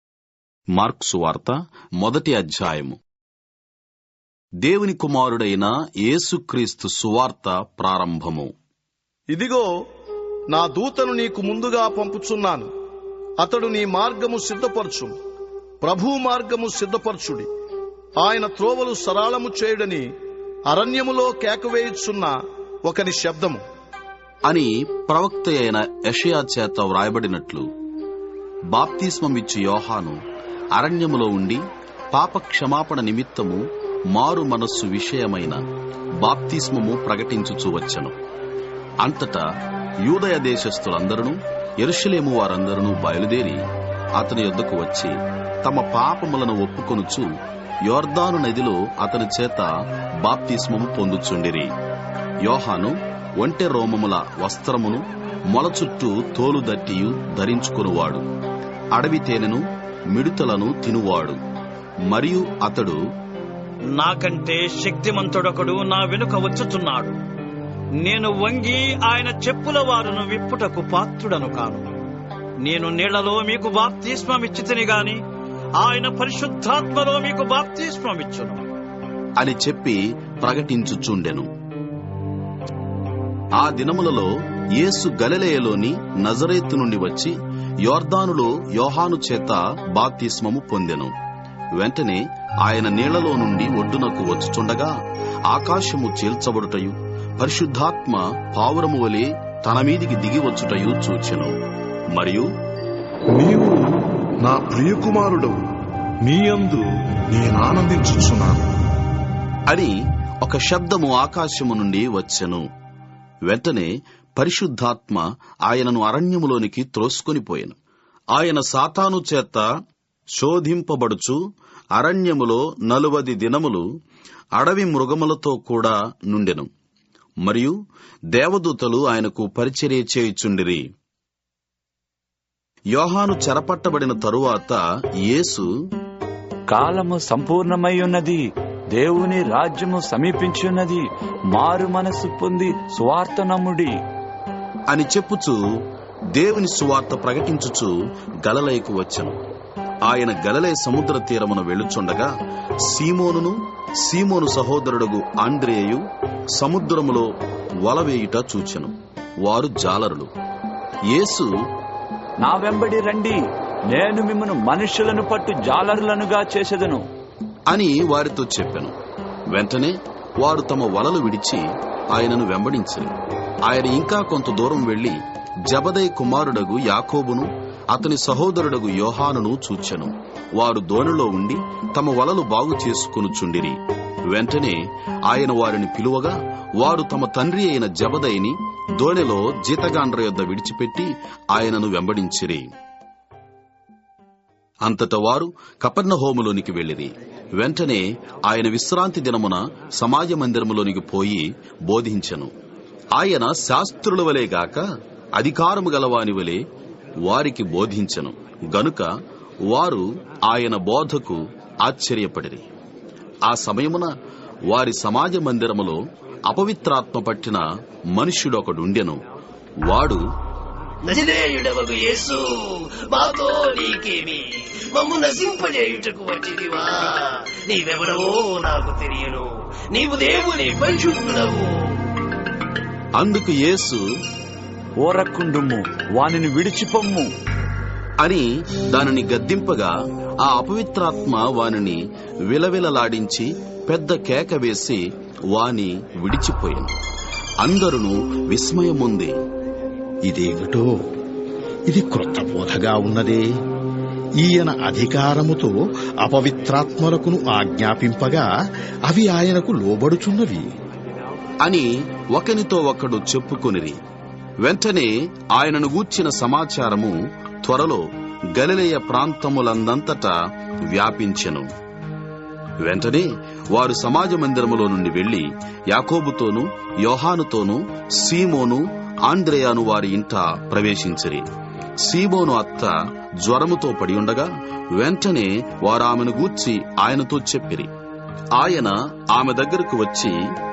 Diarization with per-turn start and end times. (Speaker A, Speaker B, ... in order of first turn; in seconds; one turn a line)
Speaker A: 0.8-3.0
Speaker A: 4.7-8.5
Speaker B: 9.3-9.7
Speaker B: 10.5-12.7
Speaker B: 13.4-15.1
Speaker B: 15.8-17.5
Speaker B: 18.2-20.0
Speaker B: 20.7-23.6
Speaker A: 24.5-27.7
Speaker A: 28.7-30.2
Speaker A: 30.8-31.6
Speaker A: 32.1-33.6
Speaker A: 34.1-35.6
Speaker A: 36.2-38.1
Speaker A: 39.0-39.5
Speaker A: 40.0-43.6
Speaker A: 44.2-47.3
Speaker A: 47.9-49.7
Speaker A: 50.2-51.7
Speaker A: 52.4-58.2
Speaker A: 58.9-61.4
Speaker A: 62.1-63.0
Speaker C: 64.0-67.2
Speaker C: 68.0-71.9
Speaker C: 72.7-75.2
Speaker C: 75.8-78.6
Speaker A: 79.4-81.5
Speaker A: 83.6-91.1
Speaker A: 91.8-94.9
Speaker A: 95.5-101.5
Speaker A: 102.1-102.5
Speaker D: 103.3-103.8
Speaker D: 104.4-105.6
Speaker D: 106.2-108.6
Speaker A: 109.7-112.7
Speaker A: 113.5-117.8
Speaker A: 118.3-119.7
Speaker A: 120.3-121.4
Speaker A: 122.0-123.8
Speaker A: 124.6-126.7
Speaker A: 127.5-127.8
Speaker A: 128.3-130.8
Speaker A: 132.9-135.7
Speaker E: 136.7-138.4
Speaker E: 138.9-143.9
Speaker A: 144.9-145.6
Speaker A: 146.3-149.4
Speaker A: 150.1-152.3
Speaker A: 152.9-156.0
Speaker A: 156.6-157.3
Speaker A: 157.8-158.9
Speaker A: 159.4-160.3
Speaker A: 161.1-161.5
Speaker E: 162.4-163.4
Speaker E: 163.9-167.0
Speaker A: 167.7-168.9
Speaker A: 169.5-173.1
Speaker A: 173.7-175.2
Speaker A: 175.7-183.8
Speaker A: 184.3-192.7
Speaker A: 194.8-202.5
Speaker A: 203.2-204.8
Speaker A: 205.4-206.6
Speaker A: 207.2-209.1
Speaker A: 209.7-212.6
Speaker A: 213.5-214.1
Speaker A: 214.7-219.2
Speaker A: 219.8-220.2
Speaker F: 221.1-231.9
Speaker A: 233.2-234.0
Speaker E: 235.0-237.3
Speaker A: 238.2-246.9
Speaker A: 247.6-249.3
Speaker G: 250.2-250.9
Speaker G: 251.9-253.4
Speaker G: 254.4-255.7
Speaker G: 256.2-258.5
Speaker G: 259.1-260.7
Speaker A: 261.6-264.0
Speaker A: 264.6-270.4
Speaker A: 270.9-271.7
Speaker A: 272.8-281.4
Speaker A: 282.0-287.9
Speaker A: 288.6-290.4